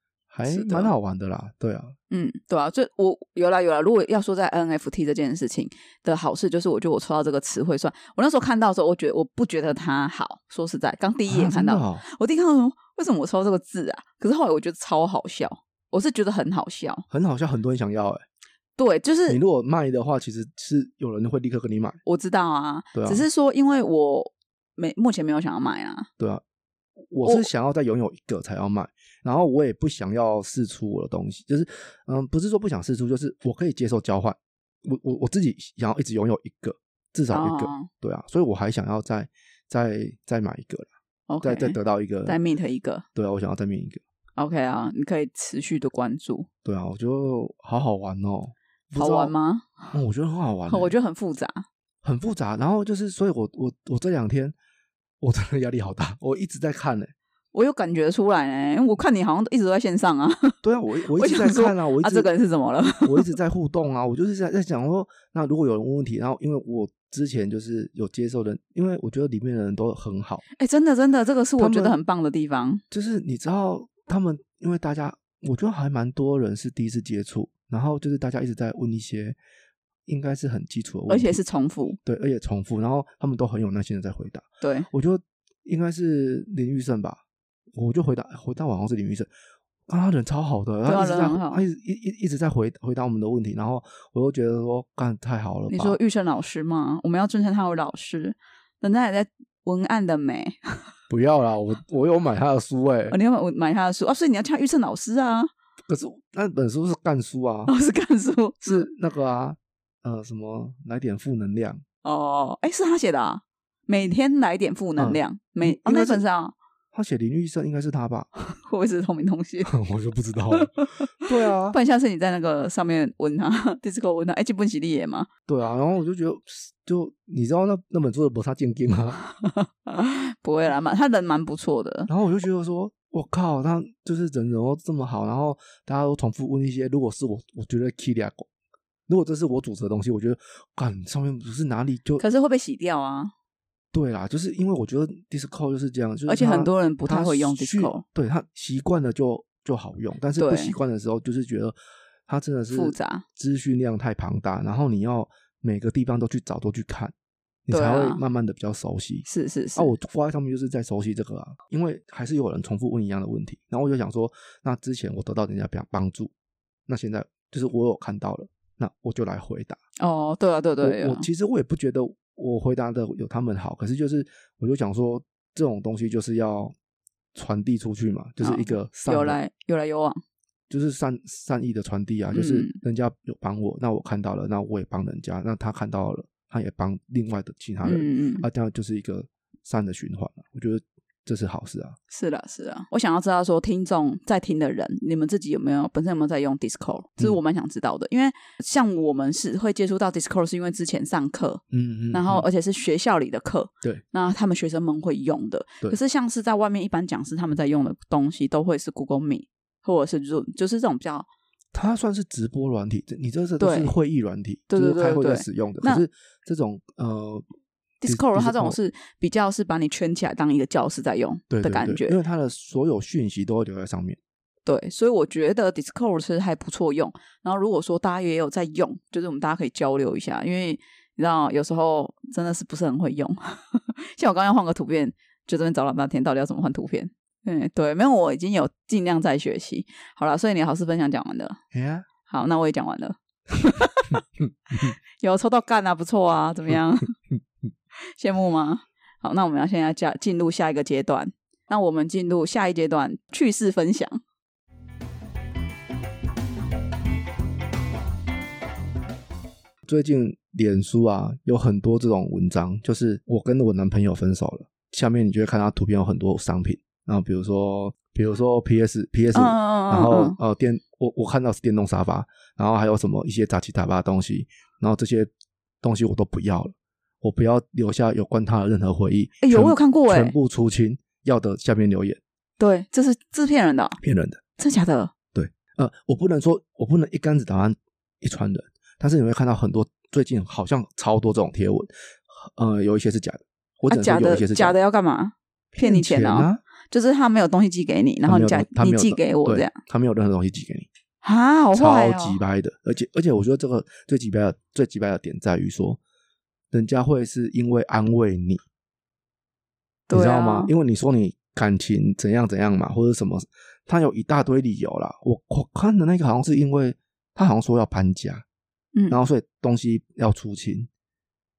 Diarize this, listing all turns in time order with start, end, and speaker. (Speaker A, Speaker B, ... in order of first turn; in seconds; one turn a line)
Speaker A: 0.3-1.9
Speaker B: 0.5-0.9
Speaker B: 2.1-17.1
Speaker A: 11.3-12.1
Speaker A: 17.1-18.2
Speaker B: 18.8-19.4
Speaker A: 19.3-22.0
Speaker B: 22.1-26.1
Speaker A: 22.9-23.2
Speaker A: 27.1-40.9
Speaker B: 37.3-37.9
Speaker B: 41.3-43.0
Speaker A: 41.4-42.4
Speaker A: 43.2-44.0
Speaker B: 44.4-46.5
Speaker A: 46.6-49.3
Speaker B: 49.0-49.9
Speaker A: 49.9-50.9
Speaker B: 50.7-51.6
Speaker A: 52.0-54.5
Speaker A: 55.2-57.1
Speaker B: 57.5-60.6
Speaker A: 60.6-62.3
Speaker B: 61.1-63.3
Speaker A: 63.0-70.4
Speaker B: 70.6-72.8
Speaker A: 71.6-72.0
Speaker A: 72.9-79.4
Speaker A: 80.1-81.4
Speaker B: 81.1-82.0
Speaker A: 82.0-87.2
Speaker B: 84.6-84.9
Speaker A: 87.8-89.3
Speaker A: 89.9-96.0
Speaker B: 90.9-91.6
Speaker B: 95.7-100.9
Speaker A: 101.1-103.2
Speaker B: 103.1-105.5
Speaker A: 105.9-107.7
Speaker B: 107.7-108.9
Speaker A: 108.6-111.8
Speaker B: 112.0-116.5
Speaker A: 115.0-116.2
Speaker A: 116.9-118.3
Speaker B: 118.4-119.7
Speaker A: 119.7-120.7
Speaker B: 120.5-121.1
Speaker A: 121.2-121.8
Speaker B: 121.7-125.3
Speaker A: 125.5-129.2
Speaker B: 129.4-132.1
Speaker A: 132.1-138.5
Speaker A: 139.1-142.2
Speaker B: 142.2-143.3
Speaker A: 143.9-151.8
Speaker B: 146.3-148.0
Speaker B: 150.4-150.8
Speaker A: 152.3-157.1
Speaker B: 152.7-153.2
Speaker A: 157.7-166.3
Speaker B: 157.7-158.2
Speaker B: 159.3-159.9
Speaker A: 166.9-169.8
Speaker B: 170.0-171.3
Speaker A: 170.8-176.7
Speaker A: 177.3-179.4
Speaker B: 178.4-180.2
Speaker A: 180.7-192.0
Speaker B: 182.3-182.8
Speaker B: 187.8-188.5
Speaker B: 192.1-211.3
Speaker A: 201.7-202.5
Speaker A: 211.7-217.5
Speaker B: 213.6-213.9
Speaker B: 214.7-216.0
Speaker B: 218.0-222.2
Speaker A: 218.1-218.8
Speaker A: 221.5-224.2
Speaker B: 224.7-241.6
Speaker A: 241.7-242.1
Speaker B: 242.3-244.2
Speaker B: 244.8-247.1
Speaker B: 248.2-254.2
Speaker A: 259.9-275.3
Speaker B: 269.3-270.4
Speaker A: 275.8-282.2
Speaker B: 279.4-280.4
Speaker B: 282.6-284.0
Speaker A: 284.0-284.4
Speaker B: 284.6-285.1
Speaker A: 285.3-294.8
Speaker B: 293.9-299.8
Speaker A: 295.7-296.6
Speaker A: 298.2-300.9
Speaker B: 301.2-302.4
Speaker A: 301.8-306.0
Speaker A: 306.7-308.6
Speaker B: 310.1-310.7
Speaker A: 310.1-318.4
Speaker A: 319.1-320.9